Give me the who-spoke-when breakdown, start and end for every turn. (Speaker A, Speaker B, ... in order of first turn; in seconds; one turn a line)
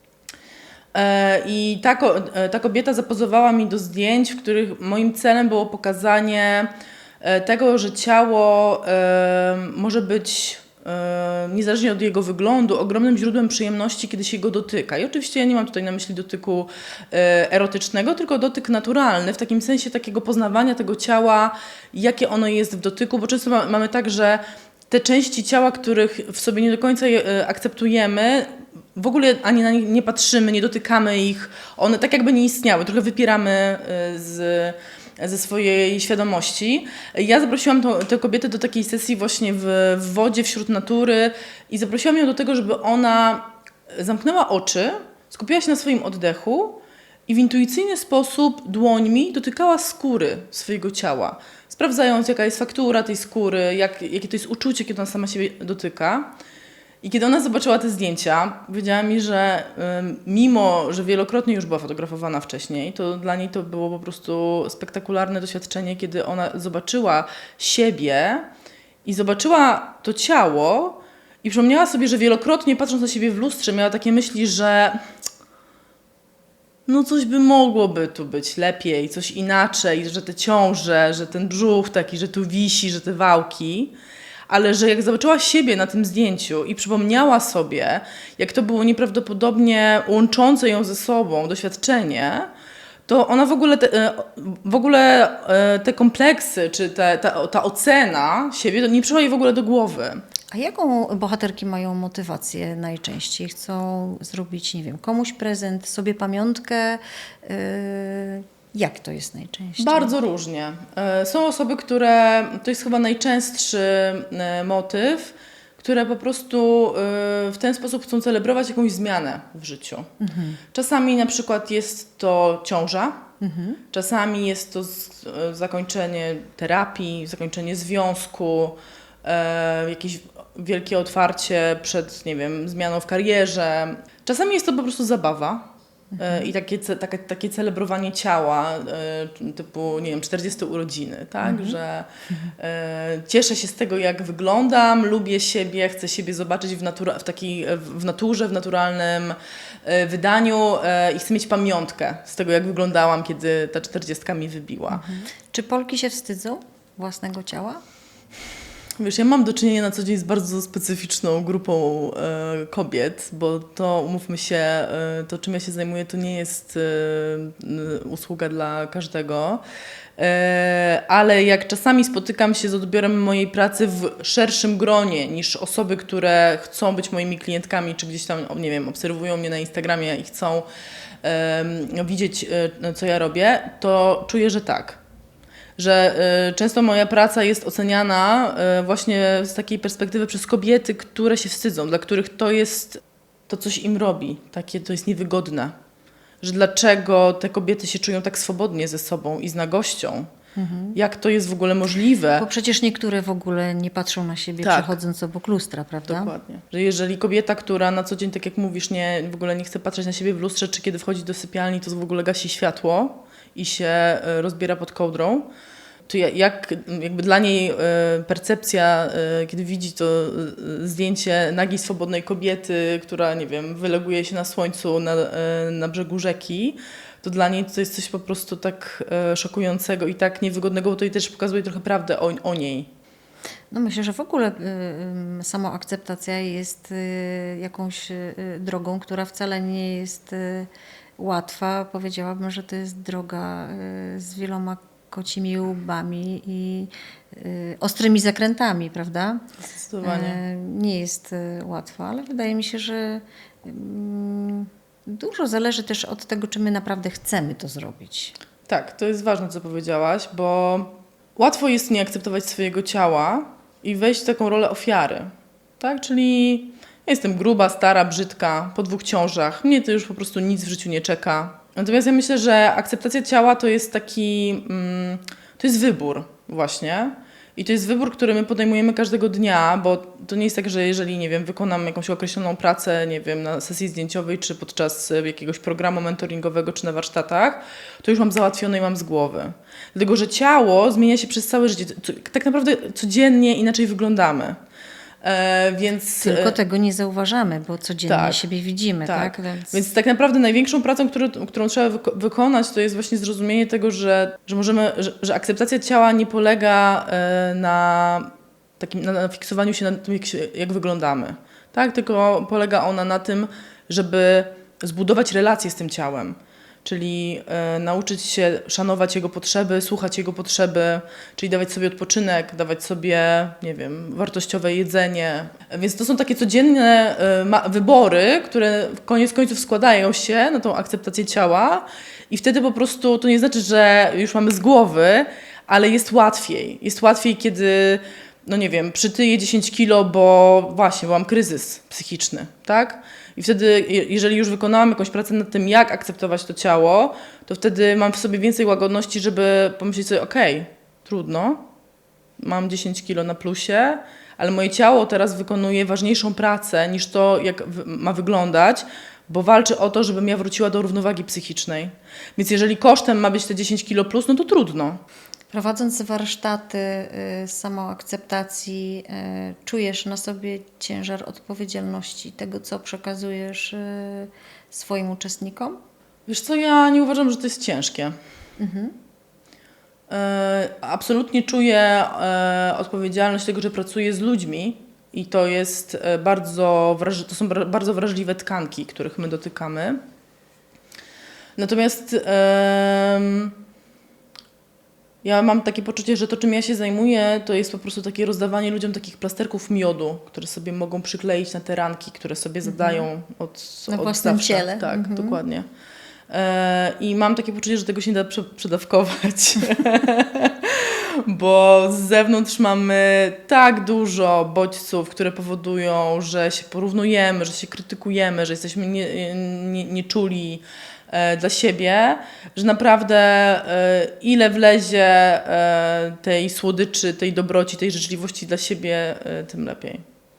Speaker A: 0.9-56.3
Speaker A: 57.0-68.5
Speaker A: 69.0-75.1
Speaker A: 76.8-83.9
Speaker A: 84.5-92.5
Speaker A: 93.0-100.2
Speaker B: 100.5-110.1
Speaker A: 109.8-120.1
Speaker B: 120.2-120.6
Speaker A: 120.7-123.2
Speaker B: 123.4-123.8
Speaker A: 123.9-135.7
Speaker B: 136.1-136.4
Speaker A: 136.2-155.1
Speaker B: 141.4-141.8
Speaker B: 154.9-157.8
Speaker A: 159.0-169.6
Speaker A: 170.2-180.7
Speaker A: 181.2-185.0
Speaker A: 185.8-195.7
Speaker A: 196.4-200.3
Speaker B: 200.5-201.0
Speaker A: 200.9-202.4
Speaker B: 202.4-206.3
Speaker A: 204.6-205.0
Speaker A: 206.1-215.5
Speaker A: 216.1-232.9
Speaker B: 233.7-249.4
Speaker A: 249.6-250.4
Speaker B: 250.0-258.4
Speaker A: 258.7-294.6
Speaker A: 295.2-296.6
Speaker B: 296.2-299.8
Speaker A: 298.1-298.4
Speaker A: 299.1-351.6
Speaker A: 352.4-365.0
Speaker B: 365.5-375.8
Speaker A: 376.3-378.1
Speaker B: 378.6-378.9
Speaker A: 380.1-390.0
Speaker A: 391.6-393.6
Speaker A: 395.2-405.7
Speaker B: 402.6-403.1
Speaker B: 403.9-405.4
Speaker A: 406.3-430.0